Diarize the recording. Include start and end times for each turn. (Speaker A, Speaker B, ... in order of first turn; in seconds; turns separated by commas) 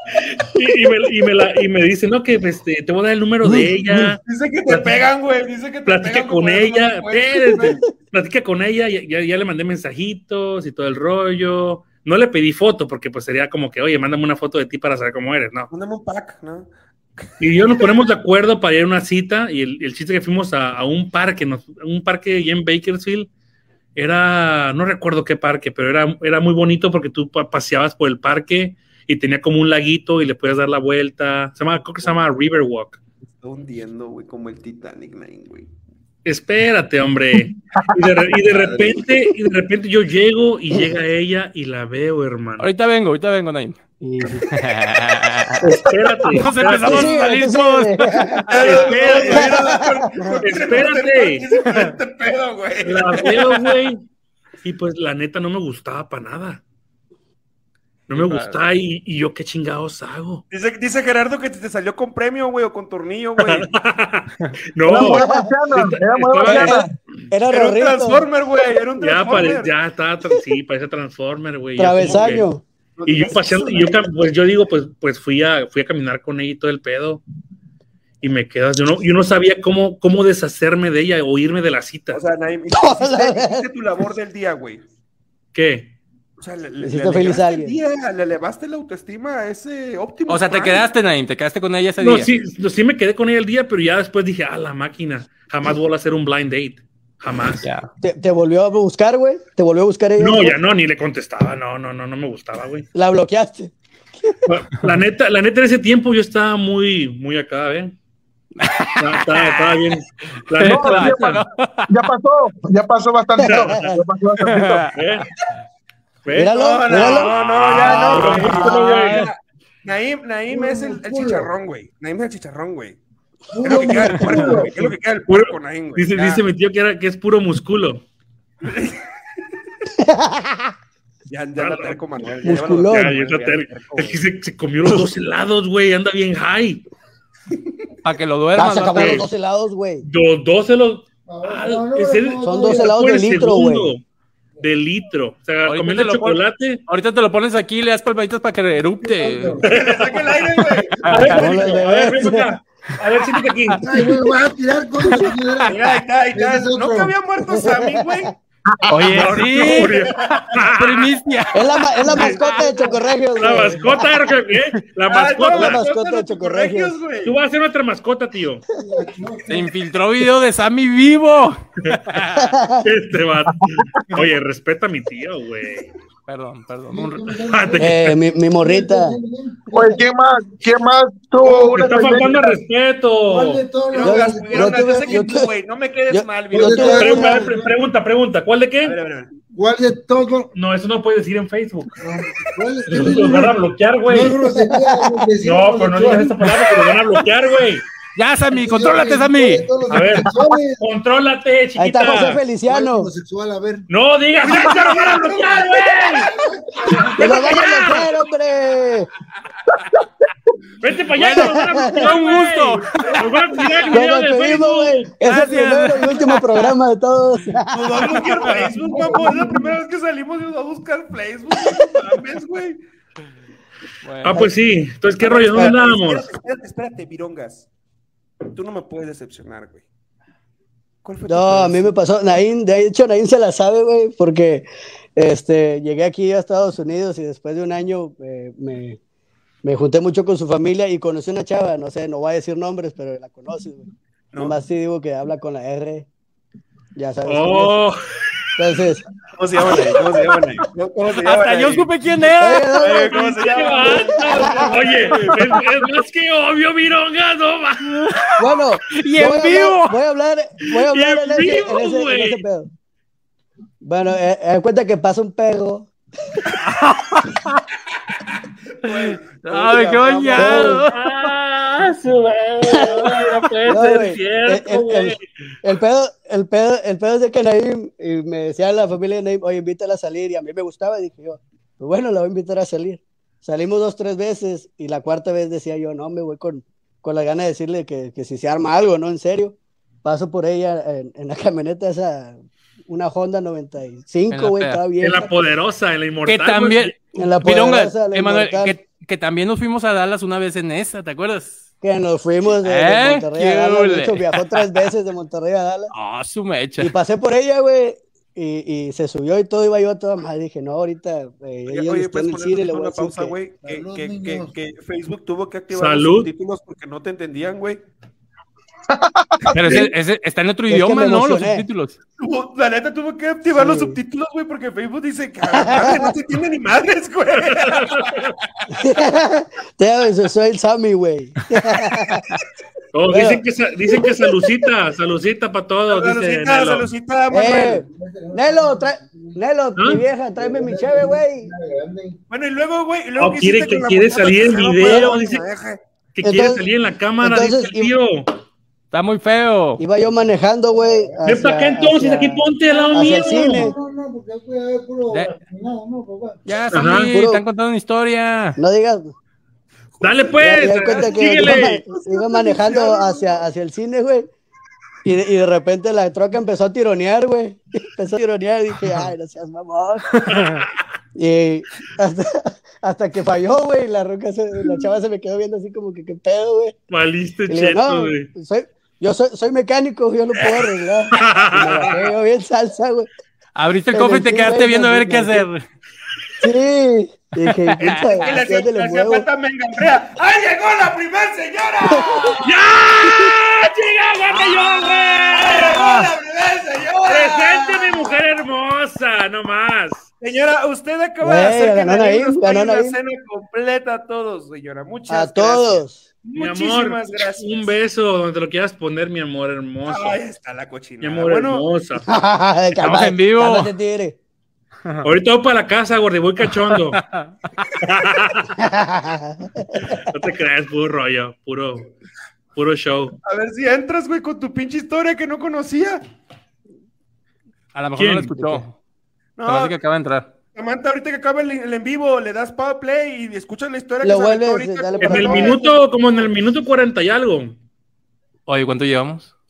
Speaker A: 0.2-5.0, Speaker B: 3.4-3.8, Speaker C: 4.2-7.8, Speaker A: 5.9-15.7, Speaker C: 15.7-16.7, Speaker A: 17.4-23.3, Speaker A: 24.0-33.0, Speaker C: 33.3-35.7, Speaker A: 36.2-42.7, Speaker D: 37.4-38.0, Speaker E: 42.6-43.8, Speaker B: 44.0-44.6, Speaker E: 44.5-45.7, Speaker A: 45.6-47.3, Speaker E: 46.3-48.8, Speaker B: 46.8-48.5, Speaker C: 48.5-53.6, Speaker A: 48.6-49.8, Speaker B: 49.3-50.4, Speaker A: 50.4-51.5, Speaker E: 51.6-52.0, Speaker A: 52.8-54.0, Speaker E: 53.3-53.5, Speaker A: 54.6-56.6, Speaker A: 58.1-60.4, Speaker E: 58.1-58.6, Speaker C: 60.5-63.7, Speaker A: 63.4-66.8, Speaker D: 64.9-66.9, Speaker B: 64.9-65.5, Speaker B: 66.4-68.3, Speaker C: 67.5-69.7, Speaker A: 69.0-72.5, Speaker B: 71.8-72.6, Speaker C: 73.0-74.0, Speaker A: 73.1-77.2, Speaker A: 78.2-82.2, Speaker C: 82.1-84.8, Speaker B: 82.8-83.7, Speaker A: 85.5-86.0, Speaker C: 86.4-90.9, Speaker B: 86.8-87.8, Speaker E: 90.3-92.3, Speaker A: 92.0-97.7, Speaker E: 97.6-97.9, Speaker B: 98.0-100.6, Speaker A: 100.2-102.9, Speaker B: 102.9-103.7, Speaker A: 104.5-108.0, Speaker E: 108.6-109.8, Speaker A: 109.0-111.4, Speaker E: 110.5-111.9, Speaker D: 110.6-114.9, Speaker B: 113.4-113.9, Speaker A: 113.4-114.0, Speaker E: 114.4-115.0, Speaker A: 114.9-115.3, Speaker A: 116.2-119.3, Speaker B: 116.3-118.9, Speaker C: 116.5-123.0, Speaker E: 117.9-119.3, Speaker F: 120.5-121.5, Speaker F: 123.5-124.9, Speaker C: 123.6-126.5, Speaker A: 125.3-128.0, Speaker C: 128.6-129.0, Speaker B: 130.0-130.7, Speaker C: 131.3-134.2, Speaker A: 131.6-132.0, Speaker B: 132.4-133.1, Speaker A: 132.6-136.9, Speaker E: 138.0-139.3, Speaker B: 138.6-140.1, Speaker A: 138.9-139.3, Speaker A: 140.0-144.0, Speaker F: 141.3-143.4, Speaker B: 142.4-143.9, Speaker A: 144.6-146.8, Speaker E: 145.6-149.6, Speaker F: 149.0-149.7, Speaker C: 149.6-151.4, Speaker A: 149.7-150.2, Speaker E: 151.0-151.6, Speaker A: 151.1-154.2, Speaker B: 151.3-152.5, Speaker F: 153.7-155.7, Speaker E: 155.1-155.8, Speaker C: 155.7-158.3, Speaker F: 156.3-157.2, Speaker D: 158.9-159.2, Speaker E: 158.9-163.0, Speaker A: 158.9-161.1, Speaker C: 159.8-160.4, Speaker B: 161.6-164.1, Speaker A: 162.1-162.4, Speaker A: 163.4-165.8, Speaker C: 165.1-167.4, Speaker B: 165.5-166.9, Speaker A: 167.2-168.6, Speaker F: 168.7-169.8, Speaker E: 169.5-172.6, Speaker B: 172.3-172.8, Speaker A: 172.8-175.9, Speaker E: 176.3-177.3, Speaker F: 176.9-179.8, Speaker A: 177.3-178.2, Speaker B: 177.8-179.2, Speaker D: 179.7-182.4, Speaker F: 181.5-182.6, Speaker A: 181.7-183.6, Speaker F: 183.2-185.3, Speaker C: 183.9-187.3, Speaker B: 184.1-185.5, Speaker B: 186.1-187.5, Speaker F: 186.5-187.7, Speaker A: 186.8-189.0, Speaker C: 188.8-189.3, Speaker F: 189.5-190.5, Speaker A: 190.5-191.9, Speaker F: 192.0-197.0, Speaker A: 192.9-194.4, Speaker B: 194.5-195.2, Speaker A: 195.4-197.8, Speaker E: 198.2-199.7, Speaker F: 198.5-200.8, Speaker A: 199.9-202.4, Speaker B: 201.8-203.1, Speaker F: 202.6-203.9, Speaker A: 203.9-206.3, Speaker C: 204.4-207.6, Speaker F: 206.7-207.7, Speaker A: 207.2-208.2, Speaker B: 207.2-209.1, Speaker A: 210.8-215.3, Speaker E: 211.1-213.2, Speaker B: 211.3-212.1, Speaker B: 213.9-218.1, Speaker E: 215.2-216.8, Speaker C: 217.7-222.8, Speaker E: 218.2-218.6, Speaker B: 218.9-219.6, Speaker F: 219.0-219.5, Speaker E: 224.0-224.4, Speaker A: 224.2-226.3, Speaker C: 225.2-227.7, Speaker C: 228.5-229.9, Speaker C: 231.0-232.0, Speaker B: 231.3-239.0, Speaker B: 239.6-243.9, Speaker B: 244.4-246.1, Speaker B: 247.0-247.8, Speaker A: 247.3-248.0, Speaker B: 248.6-249.0, Speaker C: 249.3-251.9, Speaker E: 251.2-253.4, Speaker B: 252.4-255.1, Speaker C: 252.8-255.3, Speaker A: 253.4-258.1, Speaker E: 255.0-255.5, Speaker E: 257.9-260.0, Speaker B: 258.4-262.7, Speaker A: 260.8-262.4, Speaker B: 263.8-266.4, Speaker E: 266.6-267.6, Speaker C: 268.8-270.9, Speaker E: 268.9-271.3, Speaker B: 270.4-270.8, Speaker A: 270.5-275.3, Speaker B: 272.6-295.3, Speaker E: 294.3-294.8, Speaker A: 295.0-297.0, Speaker E: 296.3-301.6, Speaker B: 297.1-298.8, Speaker B: 301.8-305.9, Speaker E: 302.5-304.9, Speaker E: 305.9-306.9, Speaker B: 306.8-313.4, Speaker C: 311.7-317.8, Speaker F: 313.6-314.5, Speaker A: 315.7-316.3, Speaker D: 318.9-319.9, Speaker E: 319.5-322.0, Speaker B: 320.7-321.7, Speaker C: 322.2-328.3, Speaker B: 323.5-324.0, Speaker B: 325.7-326.1, Speaker A: 327.5-328.3, Speaker B: 328.8-332.3, Speaker A: 332.9-336.9, Speaker B: 333.1-333.4, Speaker C: 335.9-337.8, Speaker B: 337.3-341.5, Speaker F: 337.8-339.4, Speaker A: 339.8-340.0, Speaker F: 340.4-342.2, Speaker C: 342.3-345.8, Speaker A: 343.2-345.4, Speaker A: 346.2-348.3, Speaker B: 346.2-346.6, Speaker B: 347.2-347.9, Speaker E: 348.9-349.8, Speaker B: 349.8-353.8, Speaker F: 350.8-351.2, Speaker A: 351.2-353.7, Speaker F: 352.6-356.4, Speaker E: 355.1-355.4, Speaker E: 356.5-358.6, Speaker A: 356.7-357.1, Speaker B: 357.1-357.4, Speaker B: 358.6-359.1, Speaker C: 360.0-363.4, Speaker A: 360.0-361.8, Speaker B: 360.4-364.3, Speaker B: 365.1-370.2, Speaker E: 370.2-370.7, Speaker A: 370.3-370.6, Speaker B: 371.2-376.8, Speaker A: 376.9-378.3, Speaker B: 377.5-383.1, Speaker A: 381.1-382.1, Speaker E: 383.6-385.6, Speaker B: 383.9-385.5, Speaker B: 386.4-389.2, Speaker E: 387.4-388.2, Speaker C: 387.8-393.2, Speaker B: 391.9-392.4, Speaker A: 392.4-395.9, Speaker C: 394.3-398.1, Speaker A: 397.1-400.1, Speaker C: 400.2-407.7, Speaker B: 401.2-403.0, Speaker B: 405.1-406.1, Speaker A: 406.3-410.2, Speaker C: 409.9-411.6, Speaker A: 411.0-412.1, Speaker B: 412.1-414.2, Speaker E: 412.8-413.7, Speaker A: 415.0-417.0, Speaker E: 416.6-417.3, Speaker A: 417.8-418.5, Speaker B: 418.6-420.0, Speaker A: 419.9-421.9, Speaker A: 422.6-423.1, Speaker C: 423.2-426.0, Speaker E: 427.7-428.8, Speaker A: 428.0-428.3, Speaker C: 429.4-429.8, Speaker E: 429.4-430.3, Speaker C: 430.6-435.7, Speaker B: 434.0-435.6, Speaker A: 435.0-437.6, Speaker E: 438.5-439.3